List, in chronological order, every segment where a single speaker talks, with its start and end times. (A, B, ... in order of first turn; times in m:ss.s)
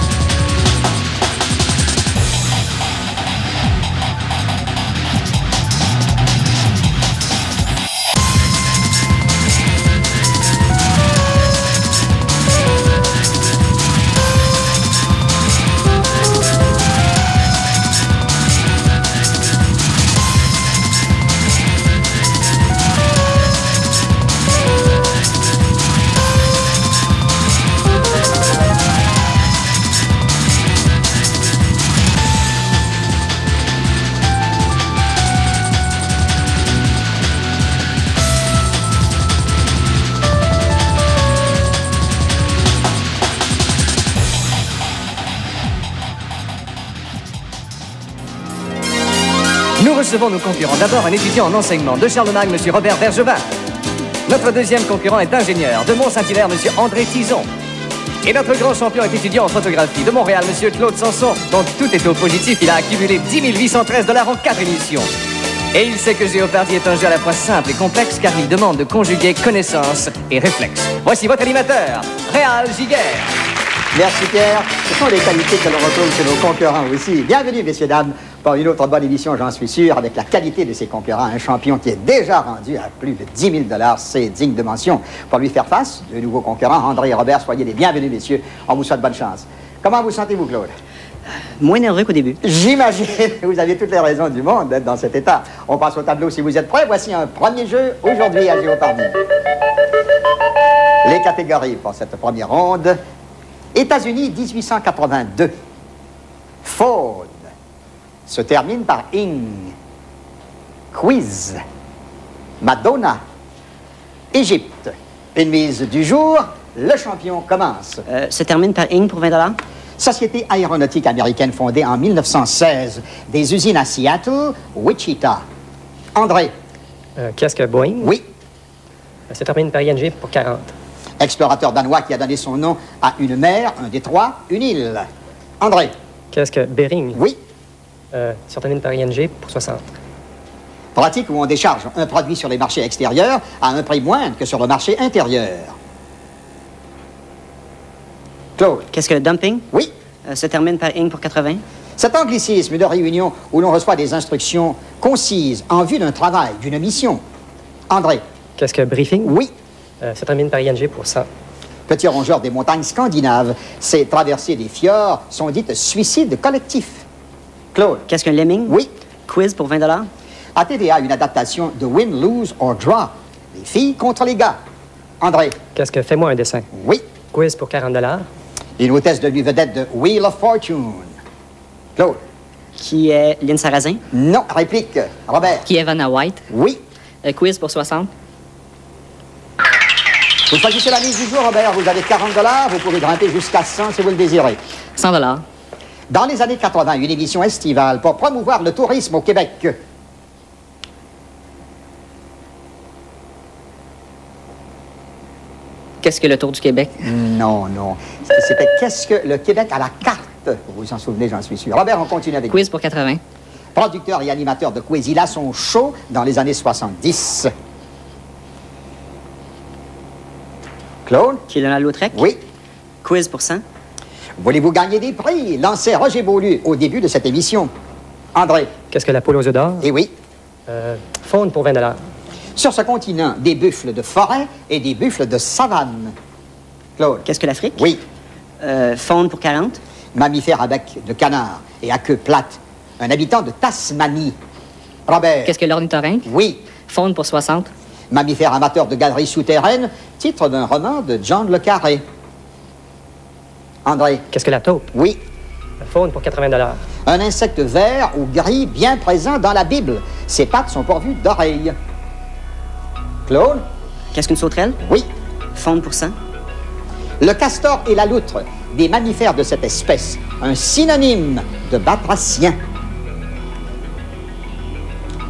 0:49.8-0:53.4 A
0:54.3-0:57.5 A
0:58.2-1:05.1 A
1:05.7-1:13.3 A
1:13.9-1:30.7 B
1:31.6-1:32.4 C
1:32.4-1:39.2 B
1:41.0-1:43.0 B
1:43.7-1:45.5 B
1:46.6-1:47.5 B
1:48.3-1:49.8 B
1:50.9-1:51.6 B
1:52.6-1:53.2 B
1:54.3-1:58.0 B
1:58.1-1:59.6 C
2:00.0-2:05.4 B
2:06.2-2:06.5 B
2:07.2-2:08.2 D
2:09.3-2:10.7 D
2:11.2-2:15.1 B
2:15.6-2:15.9 B
2:16.3-2:17.2 D
2:17.1-2:17.4 B
2:18.1-2:19.8 D
2:21.0-2:25.8 B
2:28.6-2:28.9 B
2:28.9-2:29.7 C
2:30.3-2:31.6 C
2:32.0-2:37.2 B
2:37.9-2:38.2 B
2:38.6-2:39.4 D
2:39.2-2:39.5 B
2:40.0-2:41.3 D
2:41.9-2:47.1 B
2:47.7-2:48.1 B
2:48.1-2:50.1 C
2:50.6-2:54.6 B
2:55.2-2:55.6 B
2:55.8-2:56.7 D
2:56.7-2:57.0 B
2:57.3-2:58.3 D
2:58.8-3:01.2 B
3:02.8-3:04.0 C
3:04.1-3:05.7 B
3:05.6-3:06.5 E
3:06.5-3:06.8 B
3:07.2-3:08.1 E
3:10.5-3:14.6 B
3:15.0-3:15.4 E
3:16.1-3:19.8 B
3:26.0-3:27.1 E
3:27.0-3:32.6 B
3:32.5-3:33.2 E
3:33.8-3:37.5 B
3:41.1-3:41.4 B
3:41.5-3:42.3 C
3:42.1-3:42.4 B
3:43.0-3:43.6 C
3:44.4-3:47.7 B
3:48.4-3:48.7 B
3:48.9-3:49.9 D
3:49.8-3:50.1 B
3:50.7-3:52.0 D
3:52.6-3:56.2 B
3:57.0-3:58.0 B
3:57.3-3:57.9 C
3:58.6-3:59.8 C
4:00.2-4:04.4 B
4:05.1-4:05.6 B
4:05.4-4:06.3 E
4:06.2-4:06.6 B
4:06.9-4:07.7 E
4:08.1-4:12.0 B
4:13.8-4:14.2 B
4:14.3-4:14.9 D
4:14.9-4:15.2 B
4:15.8-4:16.8 D
4:17.1-4:21.8 B
4:23.3-4:23.6 B
4:24.1-4:24.8 C
4:25.6-4:26.2 C
4:27.2-4:32.6 B